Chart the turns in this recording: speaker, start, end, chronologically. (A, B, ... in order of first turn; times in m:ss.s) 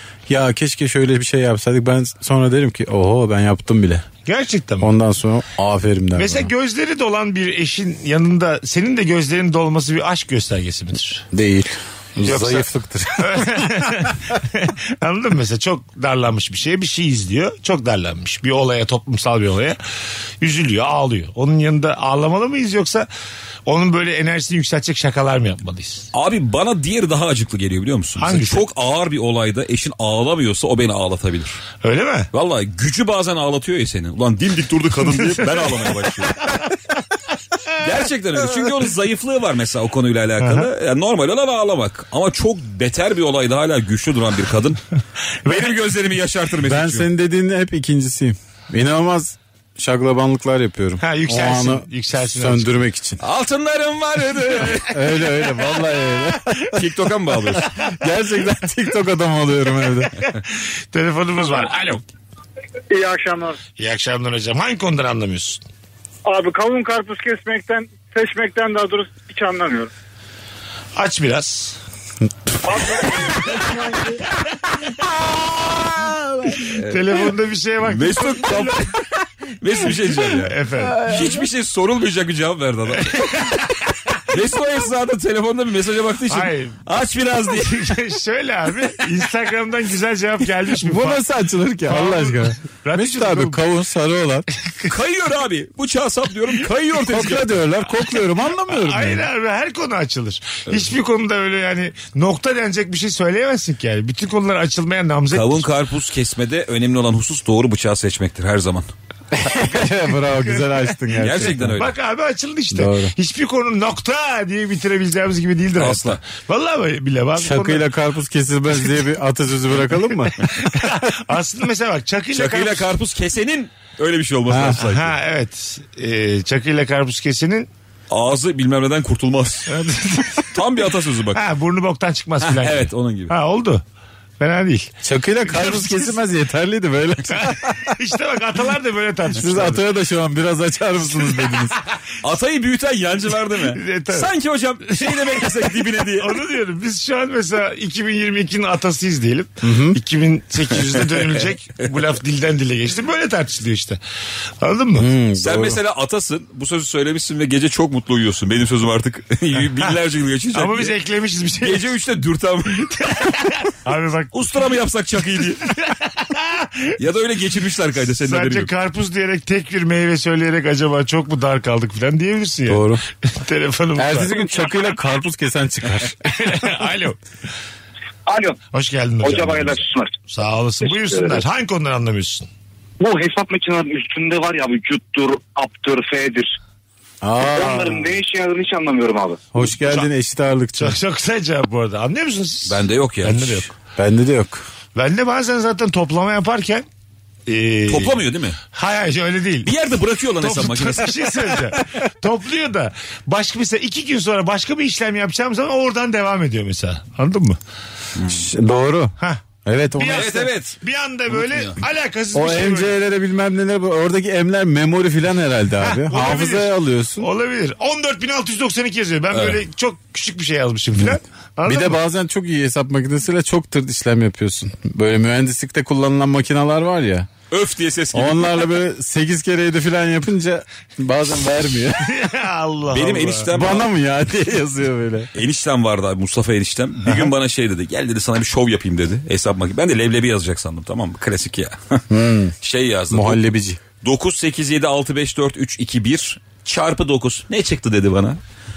0:00.3-0:04.1 A
0:04.3-0:04.9 B
0:04.8-0:06.5 A
0:06.2-0:11.3 B
0:11.3-0:14.0 A
0:12.2-0:19.8 B
0:20.4-0:23.1 B
0:23.7-0:26.1 B
0:26.1-0:31.6 C
0:28.2-0:28.6 B
0:31.8-0:32.3 B
0:32.3-0:36.7 C
0:35.3-0:36.7 B
0:37.8-0:44.8 C
0:45.5-0:47.1 C
0:46.6-0:53.2 A
0:51.0-0:52.8 B
0:53.2-0:55.1 C
0:54.9-0:56.9 A
0:56.7-0:57.7 C
0:57.6-1:00.2 A
1:00.9-1:02.0 B
1:02.9-1:03.6 D
1:03.8-1:05.6 B
1:06.3-1:09.9 D
1:11.0-1:11.8 B
1:12.6-1:14.2 D
1:16.1-1:16.6 A
1:16.6-1:18.8 B
1:16.7-1:17.2 C
1:17.9-1:19.0 C
1:19.6-1:28.0 C
1:20.4-1:21.1 B
1:23.0-1:23.9 B
1:26.3-1:26.8 B
1:27.6-1:31.2 B
1:30.8-1:34.5 A
1:31.9-1:33.6 B
1:34.9-1:37.5 C
1:37.0-1:39.3 A
1:38.7-1:45.7 B
1:45.3-1:48.9 C
1:49.3-1:51.9 A
1:49.7-1:51.0 B
1:51.2-1:51.9 C
1:51.8-1:57.9 B
1:52.7-1:53.1 A
1:55.8-1:56.2 C
1:57.4-2:01.0 A
2:00.4-2:02.9 B
2:02.4-2:05.2 C
2:04.5-2:04.8 A
2:04.8-2:07.7 B
2:08.1-2:09.7 C
2:09.7-2:10.5 B
2:10.5-2:11.4 C
2:11.4-2:13.8 B
2:12.4-2:13.4 C
2:14.4-2:16.1 B
2:15.0-2:18.0 A
2:17.3-2:19.8 B
2:19.3-2:21.8 A
2:22.2-2:26.4 C
2:23.6-2:24.3 B
2:25.0-2:34.0 B
2:29.6-2:30.0 A
2:34.6-2:35.1 B
2:35.0-2:35.8 A
2:35.4-2:41.0 C
2:40.5-2:41.9 B
2:41.6-2:43.3 C
2:42.9-2:44.7 B
2:44.3-2:45.7 C
2:45.6-2:46.9 B
2:47.0-2:48.7 C
2:48.0-2:54.7 B
2:52.7-2:53.0 A
2:54.0-2:56.6 A
2:56.3-2:57.2 B
2:58.3-2:58.6 E
2:58.7-3:02.5 B
2:59.2-3:00.2 E
3:03.0-3:06.6 E
3:07.2-3:08.2 A
3:07.4-3:09.4 E
3:09.5-3:11.0 A
3:10.8-3:13.7 B
3:12.7-3:13.7 C
3:14.0-3:14.6 A
3:15.0-3:16.9 B
3:17.5-3:19.7 B
3:17.9-3:18.6 C
3:19.6-3:21.4 C
3:20.4-3:27.6 B
3:28.2-3:28.5 C
3:28.3-3:30.5 A
3:30.0-3:32.9 B
3:30.1-3:30.8 C
3:31.3-3:31.8 C
3:32.3-3:37.3 A
3:35.8-3:42.0 B
3:39.3-3:39.6 C
3:41.6-3:47.3 A
3:47.5-3:48.8 C
3:48.1-3:52.2 A
3:52.0-3:53.5 B
3:52.9-3:53.9 C
3:53.5-3:55.3 A
3:55.3-4:02.1 C
4:02.1-4:02.6 A
4:02.6-4:03.4 C
4:03.1-4:03.8 A
4:04.0-4:08.4 C